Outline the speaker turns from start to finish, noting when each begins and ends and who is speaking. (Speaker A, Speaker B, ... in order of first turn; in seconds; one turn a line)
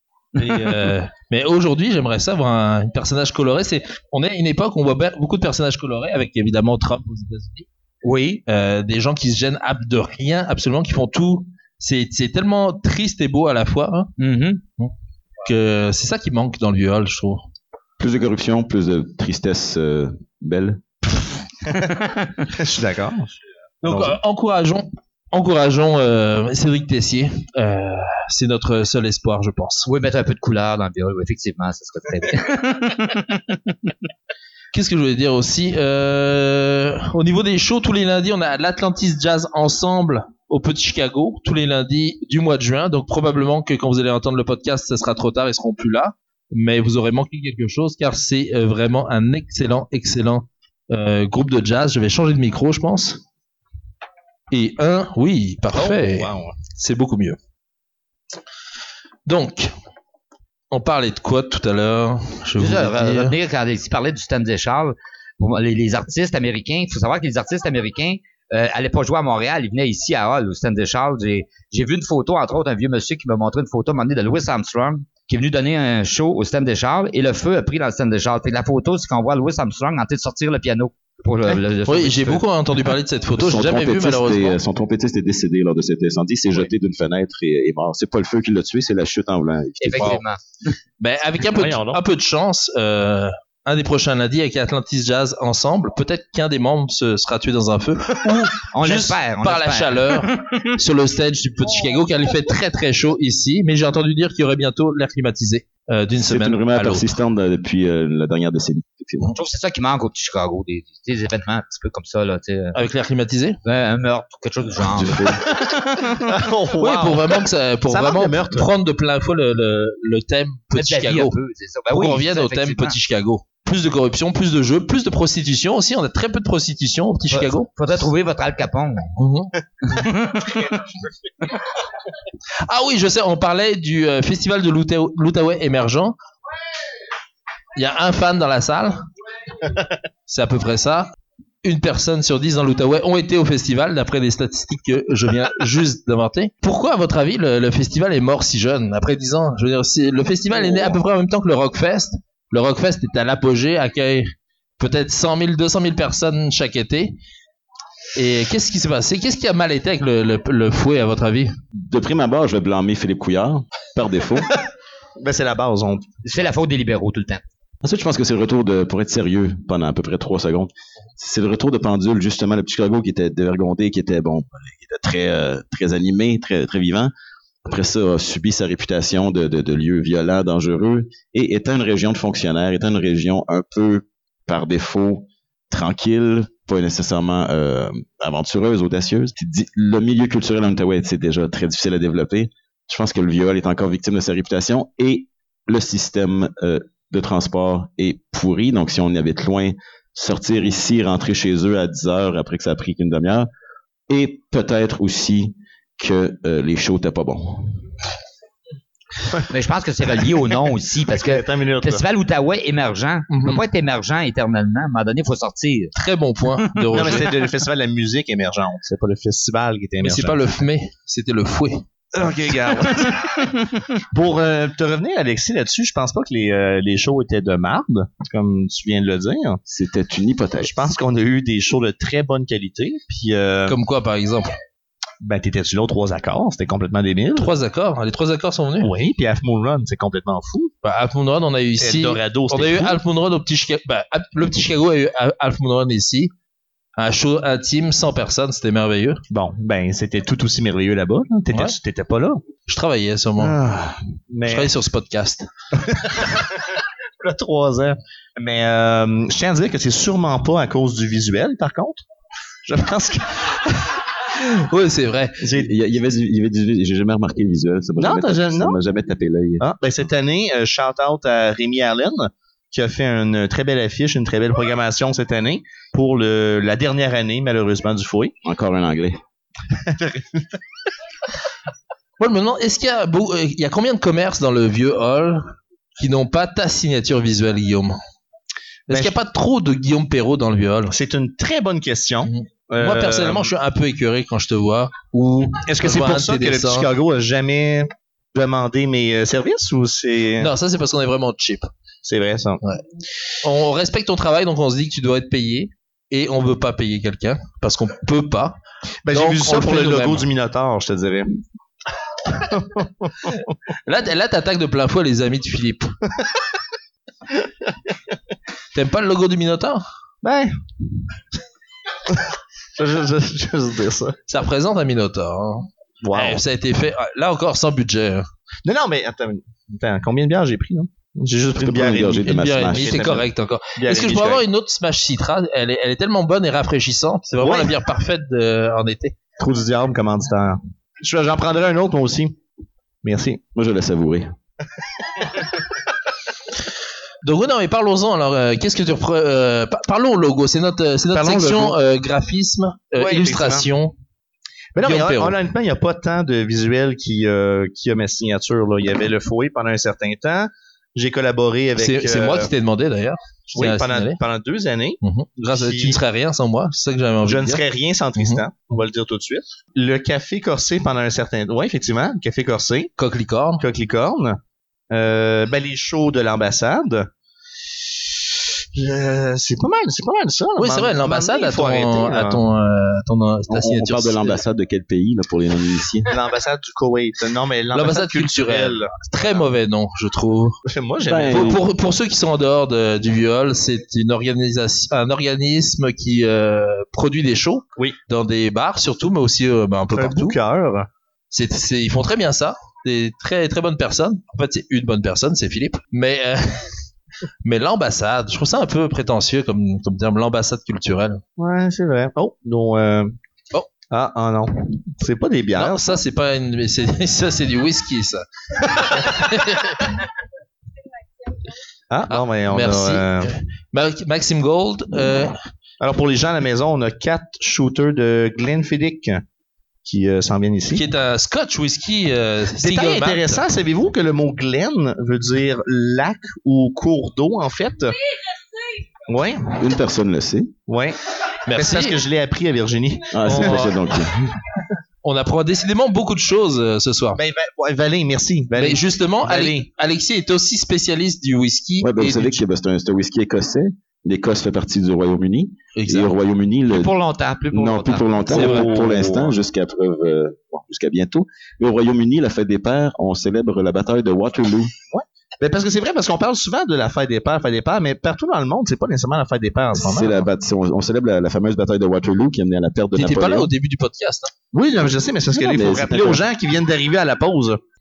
Speaker A: 0.4-0.7
Speaker B: 0.4-7.7
Speaker A: 8.0-8.4
Speaker B: 8.5-14.1
Speaker A: 14.2-14.6
Speaker B: 15.4-17.5
Speaker C: 18.0-20.8
Speaker A: 21.8-22.4
Speaker D: 22.5-23.3
Speaker B: 23.8-29.9
Speaker D: 23.8-24.2
Speaker A: 29.9-33.6
Speaker B: 34.7-53.2
Speaker B: 54.5-57.4
Speaker D: 55.7-56.5
Speaker B: 59.2-59.7
Speaker B: 60.7-63.3
Speaker A: 62.6-82.4
Speaker B: 81.9-84.6
Speaker C: 83.4-90.2
Speaker A: 89.8-90.4
Speaker B: 91.0-107.1
Speaker D: 91.5-92.0
Speaker A: 98.7-100.7
Speaker C: 106.2-109.3
Speaker A: 109.3-112.8
Speaker B: 112.8-113.6
Speaker A: 113.6-116.2
Speaker C: 114.9-115.4
Speaker D: 116.2-118.7
Speaker B: 116.8-121.4
Speaker A: 120.7-123.0
Speaker B: 121.9-127.7
Speaker A: 127.3-129.1
Speaker B: 129.2-129.5
Speaker A: 129.8-130.8
Speaker B: 132.6-136.1
Speaker B: 137.8-139.1
Speaker B: 140.3-141.1
Speaker B: 141.6-157.2
Speaker B: 158.2-161.5
Speaker C: 161.8-164.5
Speaker D: 165.2-166.0
Speaker A: 166.2-167.4
Speaker C: 167.8-177.1
Speaker C: 177.7-203.5
Speaker C: 204.1-207.9
Speaker A: 209.5-215.9
Speaker D: 211.1-212.0
Speaker B: 213.3-213.6
Speaker B: 216.0-217.3
Speaker D: 216.9-220.5
Speaker B: 220.0-221.8
Speaker D: 222.1-223.3
Speaker D: 224.1-229.6
Speaker C: 229.7-230.8
Speaker D: 230.6-233.8
Speaker B: 233.7-234.6
Speaker D: 235.2-237.5
Speaker B: 237.4-238.9
Speaker D: 238.8-240.7
Speaker B: 240.8-246.3
Speaker D: 241.8-243.0
Speaker B: 247.0-249.2
Speaker D: 249.3-252.4
Speaker B: 252.7-253.6
Speaker D: 253.4-254.7
Speaker B: 254.5-255.5
Speaker D: 255.8-256.7
Speaker D: 257.2-262.0
Speaker D: 262.6-263.9
Speaker B: 264.4-265.4
Speaker D: 265.4-265.7
Speaker C: 265.5-269.7
Speaker D: 268.0-268.8
Speaker D: 269.6-278.3
Speaker C: 278.4-279.2
Speaker D: 279.8-280.4
Speaker B: 282.2-288.0
Speaker D: 288.9-289.1
Speaker B: 288.9-291.0
Speaker D: 290.9-293.5
Speaker B: 292.2-296.9
Speaker D: 295.6-300.5
Speaker B: 300.4-301.7
Speaker D: 302.0-302.6
Speaker B: 303.4-308.6
Speaker D: 309.0-311.3
Speaker B: 309.1-310.3
Speaker D: 312.3-313.4
Speaker B: 313.9-315.9
Speaker B: 318.7-319.8
Speaker D: 320.2-320.6
Speaker D: 322.8-324.2
Speaker B: 324.3-328.3
Speaker D: 326.0-326.4
Speaker D: 328.6-334.4
Speaker C: 331.6-333.1
Speaker B: 332.2-339.1
Speaker D: 337.4-337.7
Speaker D: 339.4-342.4
Speaker D: 343.0-343.4
Speaker C: 343.5-344.3
Speaker B: 347.2-353.9
Speaker D: 351.1-351.8
Speaker D: 353.0-353.7
Speaker D: 354.8-362.5
Speaker B: 354.8-355.4
Speaker B: 361.8-364.2
Speaker D: 363.5-366.0
Speaker B: 365.0-367.6
Speaker D: 367.2-372.9
Speaker B: 368.2-368.4
Speaker B: 373.0-373.6
Speaker D: 373.6-377.1
Speaker D: 378.8-382.4
Speaker B: 380.6-384.4
Speaker C: 383.5-386.1
Speaker D: 386.1-389.5
Speaker B: 387.7-390.6
Speaker D: 390.7-391.6
Speaker C: 391.1-391.6
Speaker B: 391.3-400.4
Speaker D: 399.9-400.9
Speaker B: 401.3-406.8
Speaker B: 407.4-411.2
Speaker D: 411.4-413.1
Speaker D: 413.9-416.0
Speaker B: 415.5-419.9
Speaker D: 421.9-423.3
Speaker B: 422.1-425.4
Speaker D: 425.8-429.2
Speaker D: 429.8-430.9
Speaker B: 430.7-433.5
Speaker D: 432.6-438.0
Speaker D: 439.1-439.6
Speaker C: 439.5-440.5
Speaker D: 440.7-441.0
Speaker B: 441.5-442.0
Speaker D: 441.5-443.7
Speaker C: 443.1-444.1
Speaker B: 443.2-443.8
Speaker B: 445.0-447.2
Speaker D: 447.2-449.7
Speaker B: 448.6-452.4
Speaker C: 451.8-456.9
Speaker B: 455.8-456.1
Speaker A: 456.7-458.2
Speaker C: 457.5-464.7
Speaker D: 458.3-459.3
Speaker B: 458.3-458.8
Speaker D: 464.9-470.2
Speaker C: 469.8-473.5
Speaker B: 472.9-474.3
Speaker D: 474.5-477.6
Speaker C: 475.3-476.2